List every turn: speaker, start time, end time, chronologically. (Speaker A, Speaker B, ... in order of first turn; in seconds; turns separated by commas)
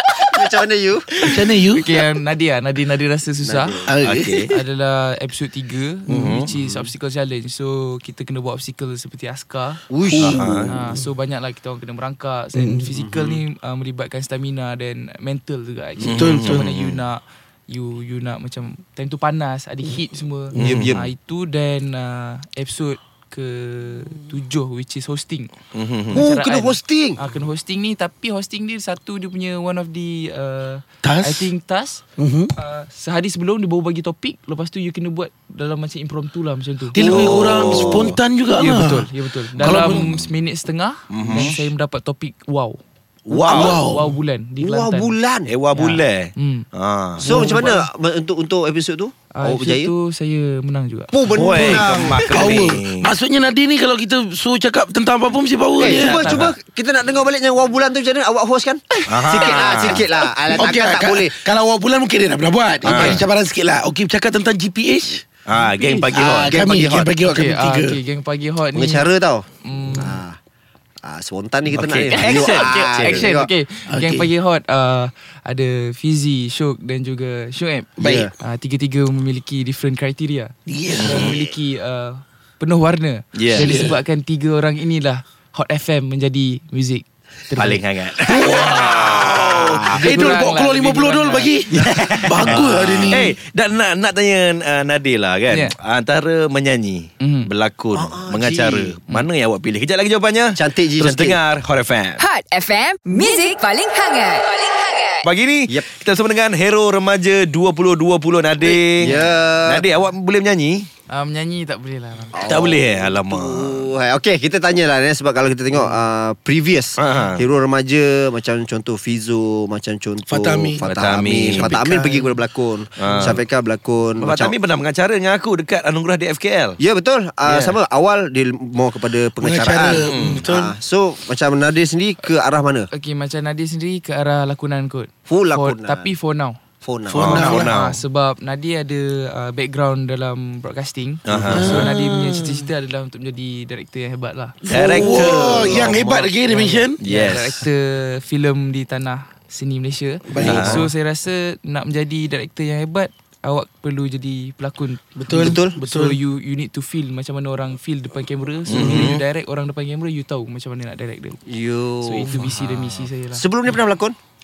Speaker A: 0.3-1.2, Speaker B: 1.2-1.9, Speaker C: 1.7-3.9, Speaker A: 3.4-3.9, Speaker B: 3.9-4.5, Speaker D: 4.0-4.5, Speaker C: 4.5-9.8, Speaker B: 6.1-6.4, Speaker D: 6.1-6.5, Speaker A: 6.5-6.9, Speaker A: 9.9-10.8, Speaker D: 10.2-10.7, Speaker C: 10.7-25.5, Speaker B: 12.6-12.9, Speaker A: 13.0-13.4, Speaker D: 16.0-17.0, Speaker B: 16.0-16.7, Speaker D: 20.6-21.0, Speaker A: 20.6-21.1, Speaker D: 25.7-26.3, Speaker C: 26.1-32.0, Speaker A: 26.1-27.2, Speaker B: 31.0-31.5, Speaker B: 32.2-32.5, Speaker C: 32.6-37.0, Speaker D: 36.9-38.2, Speaker B: 36.9-40.3, Speaker A: 37.1-38.1, Speaker C: 38.6-42.8, Speaker D: 39.6-40.1, Speaker D: 41.1-41.6, Speaker A: 41.2-41.6, Speaker D: 43.3-43.8, Speaker A: 43.3-43.8, Speaker B: 43.5-44.1, Speaker C: 43.5-45.1, Speaker A: 44.6-45.5, Speaker D: 45.5-47.6, Speaker C: 45.7-46.7, Speaker C: 47.2-47.9, Speaker A: 47.2-49.9, Speaker C: 49.3-51.1, Speaker A: 51.1-52.5, Speaker D: 51.3-53.1, Speaker B: 51.6-56.4, Speaker A: 55.8-61.4, Speaker D: 55.9-56.5, Speaker D: 59.1-60.0, Speaker B: 60.5-65.3, Speaker D: 62.8-63.2, Speaker D: 65.5-66.6, Speaker C: 65.6-66.2, Speaker B: 66.1-68.0, Speaker A: 66.5-67.1, Speaker C: 67.3-69.1, Speaker A: 68.7-70.4, Speaker C: 69.7-70.2, Speaker A: 71.0-73.5, Speaker D: 71.7-73.3, Speaker C: 72.1-87.8, Speaker B: 73.9-74.3, Speaker B: 78.0-78.3, Speaker A: 78.0-78.3, Speaker B: 80.7-81.3, Speaker D: 81.0-81.4, Speaker D: 83.3-83.8, Speaker B: 83.5-84.0, Speaker D: 87.6-88.5, Speaker B: 88.2-93.3, Speaker D: 89.2-89.9, Speaker C: 89.9-91.6, Speaker D: 91.7-102.2, Speaker C: 97.2-97.5, Speaker A: 97.9-99.0, Speaker A: 100.6-101.4, Speaker E: 102.2-105.3, Speaker D: 105.2-110.9, Speaker A: 108.6-109.9, Speaker C: 111.1-112.4, Speaker A: 112.3-124.5, Speaker D: 112.4-113.9, Speaker D: 117.0-117.4, Speaker B: 120.3-120.9, Speaker D: 120.8-121.8, Speaker B: 121.5-122.3, Speaker D: 123.0-123.4, Speaker D: 124.2-126.8, Speaker A: 126.8-132.9, Speaker D: 127.5-127.8, Speaker B: 129.4-130.8, Speaker D: 130.0-130.4, Speaker C: 132.9-136.6, Speaker A: 135.3-136.1, Speaker A: 136.8-137.7, Speaker B: 137.1-137.7, Speaker D: 137.2-138.0, Speaker C: 137.3-161.4, Speaker D: 141.3-141.9, Speaker B: 141.5-142.7, Speaker B: 144.6-147.0, Speaker D: 144.7-146.2, Speaker A: 145.3-145.6, Speaker D: 147.0-147.7, Speaker B: 150.2-150.9, Speaker D: 150.4-150.9, Speaker B: 155.2-156.2, Speaker A: 155.3-155.8, Speaker D: 158.7-159.2, Speaker B: 158.7-159.1, Speaker A: 161.5-162.5, Speaker C: 162.0-163.5, Speaker D: 162.3-163.0, Speaker A: 163.3-164.2